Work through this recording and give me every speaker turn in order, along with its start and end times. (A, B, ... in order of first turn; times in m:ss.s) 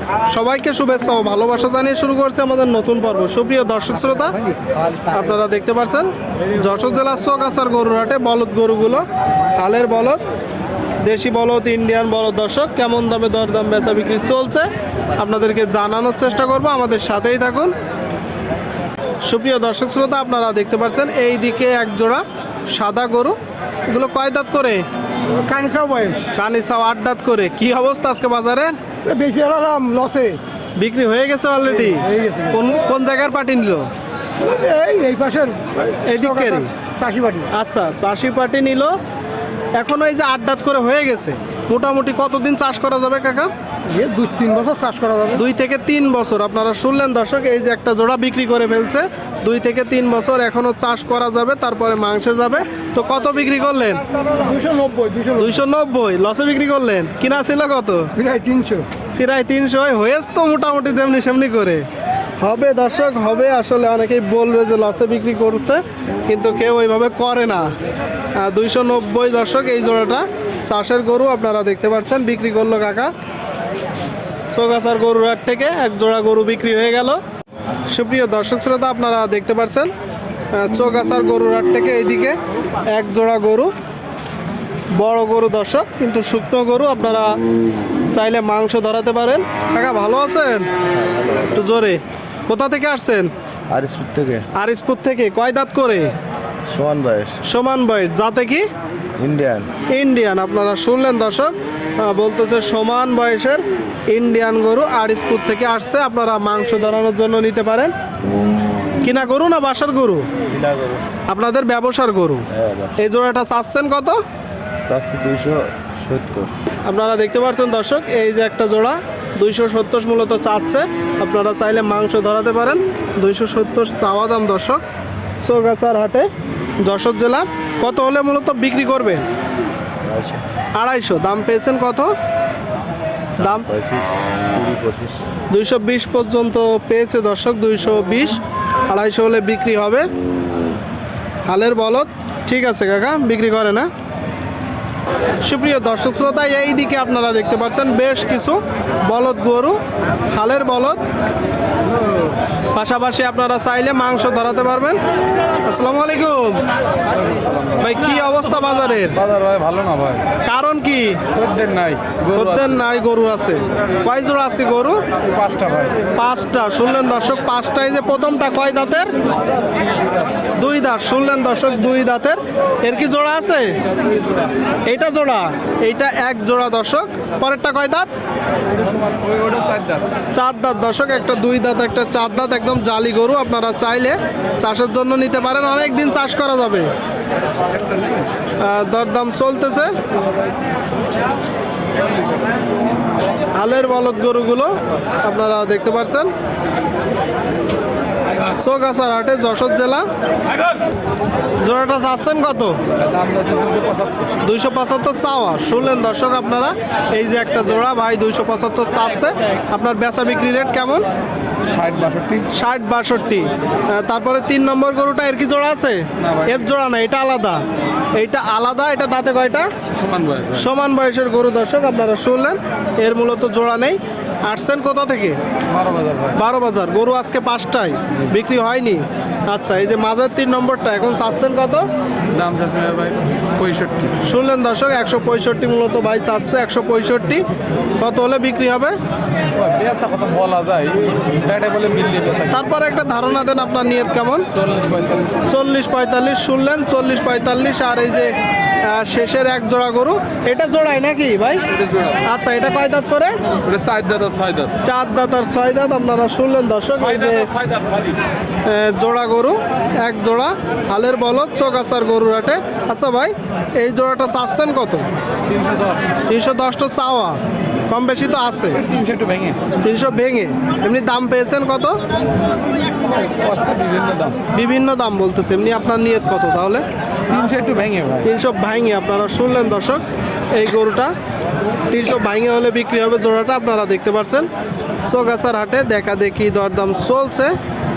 0:00.3-0:04.4 A
0:05.1-0:09.0 A
0:09.5-0:10.2 A
0:11.0-0:17.7 A
0:19.2-0:23.4 A
0:23.9-0:24.8 A
0:25.3-0:26.3 B
0:26.4-0:28.8 A
0:29.0-0:30.4 B
0:30.8-0:33.9 A
0:31.8-0:32.6 B
0:34.4-0:37.5 B
0:36.0-0:36.7 A
0:37.5-0:38.9 A
0:39.8-0:43.5 A
0:43.9-0:45.4 B
0:45.3-0:54.0 A
0:54.3-0:55.5 B
0:55.4-0:58.1 A
0:58.2-0:58.9 B
0:59.1-1:01.8 A
1:02.4-1:07.7 A
1:08.4-1:13.1 A
1:14.5-1:17.2 A
1:17.9-1:19.9 A
1:20.5-1:22.4 A
1:22.9-1:23.7 A
1:24.9-1:27.4 A
1:28.1-1:30.7 A
1:31.0-1:31.5 C
1:31.5-1:33.3 A
1:33.7-1:34.5 C
1:34.5-1:36.1 A
1:36.7-1:37.4 C
1:37.4-1:38.6 A
1:39.2-1:39.7 C
1:39.9-1:47.9 A
1:49.0-1:50.3 A
1:50.5-1:51.0 C
1:51.3-1:52.4 A
1:52.5-1:53.0 C
1:53.0-1:54.2 A
1:54.8-1:56.5 C
1:56.8-2:04.8 A
2:05.4-2:06.3 A
2:06.8-2:09.2 A
2:10.0-2:10.4 C
2:10.7-2:12.1 A
2:13.4-2:13.6 A
2:13.4-2:15.2 C
2:15.5-2:18.4 A
2:18.9-2:20.1 A
2:21.4-2:23.9 A
2:25.4-2:31.0 A
2:32.7-2:35.0 A
2:35.6-2:36.6 A
2:37.2-2:37.8 D
2:37.8-2:39.2 A
2:39.2-2:40.2 D
2:40.4-2:41.2 A
2:41.3-2:42.8 D
2:42.3-2:45.0 A
2:45.3-2:46.0 D
2:46.1-2:49.1 A
2:50.5-2:53.8 A
2:54.8-2:58.1 A
2:58.8-3:00.1 D
3:00.3-3:06.9 A
3:07.9-3:08.2 D
3:08.6-3:09.9 A
3:13.5-3:16.3 A
3:18.5-3:20.0 A
3:21.6-3:22.8 A
3:23.0-3:24.3 D
3:24.4-3:31.0 A
3:31.6-3:32.5 D
3:32.5-3:37.6 A
3:36.2-3:36.5 D
3:38.2-3:39.7 A
3:40.0-3:40.6 D
3:40.5-3:45.4 A
3:45.7-3:46.4 D
3:46.3-3:51.9 A
3:52.3-3:54.2 D
3:54.2-3:57.4 A
3:58.0-3:58.9 A
3:59.6-4:02.6 D
4:02.5-4:04.5 A
4:04.6-4:05.4 D
4:05.4-4:08.3 A
4:08.8-4:11.6 A
4:11.8-4:12.2 D
4:12.2-4:13.4 A
4:13.6-4:14.7 D
4:14.8-4:17.5 A
4:17.2-4:18.2 D
4:18.6-4:25.1 A
4:25.5-4:26.1 D
4:26.3-4:28.8 A
4:28.8-4:29.6 D
4:29.8-4:32.0 A
4:33.3-4:34.4 D
4:34.5-4:36.8 A
4:37.3-4:38.3 D
4:38.2-4:40.0 A
4:40.5-4:41.1 A
4:41.9-4:44.5 A
4:45.0-4:47.5 A